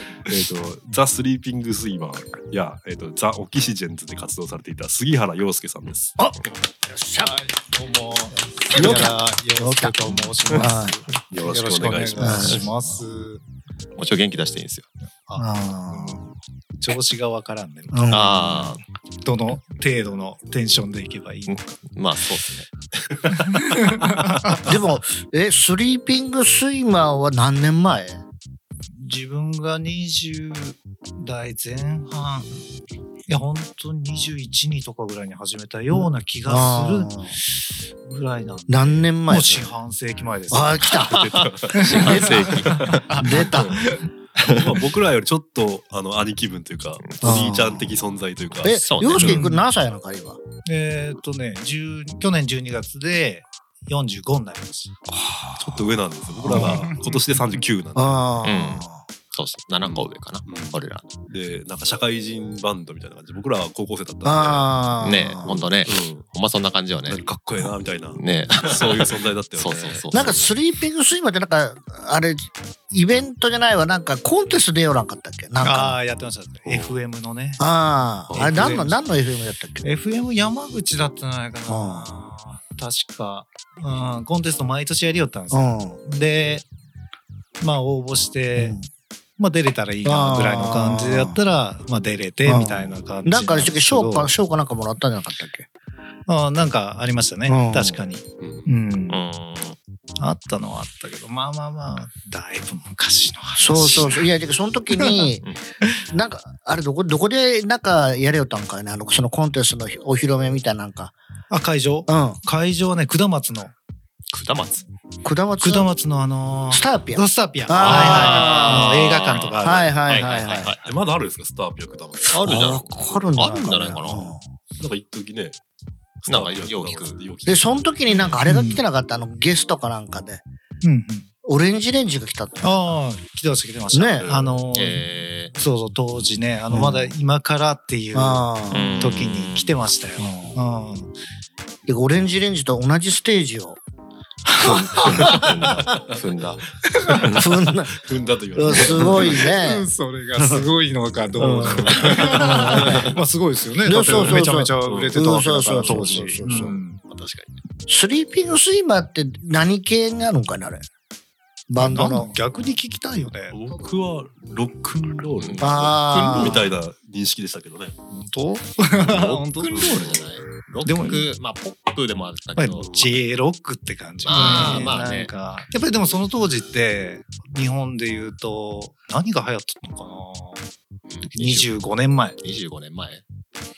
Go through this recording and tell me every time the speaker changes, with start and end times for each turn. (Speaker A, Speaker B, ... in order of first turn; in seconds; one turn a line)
Speaker A: 0.2-6.1
Speaker B: 6.2-7.5
Speaker C: 7.2-13.4
Speaker B: 8.7-11.0
Speaker A: 11.3-13.0
Speaker B: 12.2-12.7
Speaker D: 14.0-14.9
Speaker C: 15.3-16.3
Speaker B: 15.4-16.3
Speaker C: 16.8-18.0
Speaker B: 17.9-18.8
Speaker D: 18.1-18.8
Speaker C: 19.2-21.6
Speaker D: 21.5-23.9
Speaker C: 23.4-24.6
Speaker B: 24.6-28.2
Speaker C: 28.9-32.5
Speaker C: 33.3-40.9
Speaker B: 36.5-37.4
Speaker B: 38.7-39.7
Speaker B: 40.5-41.4
Speaker A: 40.9-43.8
Speaker D: 41.3-43.5
Speaker C: 41.7-43.2
Speaker B: 42.0-42.5
Speaker B: 43.1-43.9
Speaker C: 43.8-44.0
Speaker D: 44.4-44.8
Speaker A: 44.4-49.4
Speaker D: 47.0-47.5
Speaker B: 47.2-48.0
Speaker B: 48.6-50.4
Speaker D: 48.7-49.5
Speaker C: 49.2-49.6
Speaker C: 50.6-54.9
Speaker B: 55.1-56.9
Speaker A: 55.6-58.3
Speaker C: 56.5-57.4
Speaker B: 58.0-59.0
Speaker D: 58.4-61.1
Speaker A: 59.8-66.1
Speaker B: 64.2-65.5
Speaker D: 65.0-67.6
Speaker A: 67.1-70.3
Speaker D: 68.2-70.5
Speaker B: 70.1-76.0
Speaker C: 75.6-77.6
Speaker A: 76.7-77.0
Speaker B: 77.6-79.8
Speaker A: 78.3-79.0
Speaker C: 78.3-79.0
Speaker C: 79.8-86.7
Speaker B: 81.7-82.1
Speaker B: 85.5-86.0
Speaker C: 87.6-88.8
Speaker B: 88.5-88.9
Speaker C: 89.4-94.3
Speaker B: 90.0-91.4
Speaker B: 92.5-95.7
Speaker C: 96.3-99.2
Speaker B: 97.5-98.0
Speaker A: 98.4-98.7
Speaker D: 99.1-99.8
Speaker C: 100.2-104.3
Speaker B: 103.6-105.5
Speaker C: 105.0-105.2
Speaker B: 106.0-111.1
Speaker C: 111.5-113.7
Speaker B: 112.1-112.4
Speaker D: 114.3-114.8
Speaker B: 115.2-115.9
Speaker C: 115.6-119.9
Speaker B: 116.7-119.0
Speaker D: 117.8-121.0
Speaker B: 119.6-120.7
Speaker A: 120.8-122.6
Speaker D: 122.3-124.4
Speaker B: 122.4-124.4
Speaker A: 124.8-125.6
Speaker A: 126.2-128.4
Speaker D: 126.3-127.2
Speaker B: 127.5-130.4
Speaker C: 128.4-128.8
Speaker C: 130.8-131.3
Speaker B: 131.4-132.8
Speaker C: 132.6-141.1
Speaker B: 133.9-134.3
Speaker A: 134.2-134.6
Speaker D: 134.7-135.6
Speaker B: 136.7-137.1
Speaker B: 138.1-139.1
Speaker D: 138.7-139.8
Speaker B: 140.2-140.6
Speaker B: 141.9-143.8
Speaker C: 144.5-145.4
Speaker D: 144.6-146.6
Speaker C: 146.9-147.2
Speaker A: 147.2-149.5
Speaker D: 147.2-147.4
Speaker B: 147.3-147.9
Speaker B: 148.6-149.9
Speaker C: 148.8-157.0
Speaker B: 151.4-153.2
Speaker D: 151.7-153.2
Speaker B: 153.8-156.8
Speaker A: 154.8-155.2
Speaker D: 155.7-157.5
Speaker B: 157.9-160.9
Speaker B: 161.7-162.3
Speaker C: 161.8-163.6
Speaker A: 163.5-167.9
Speaker D: 165.4-166.7
Speaker B: 165.6-166.6
Speaker C: 168.1-170.2
Speaker D: 169.0-172.9
Speaker C: 170.8-171.3
Speaker C: 172.6-180.7
Speaker A: 172.8-173.2
Speaker D: 174.2-175.3
Speaker A: 174.4-174.9
Speaker D: 181.1-181.7
Speaker C: 181.3-182.4
Speaker D: 182.4-183.2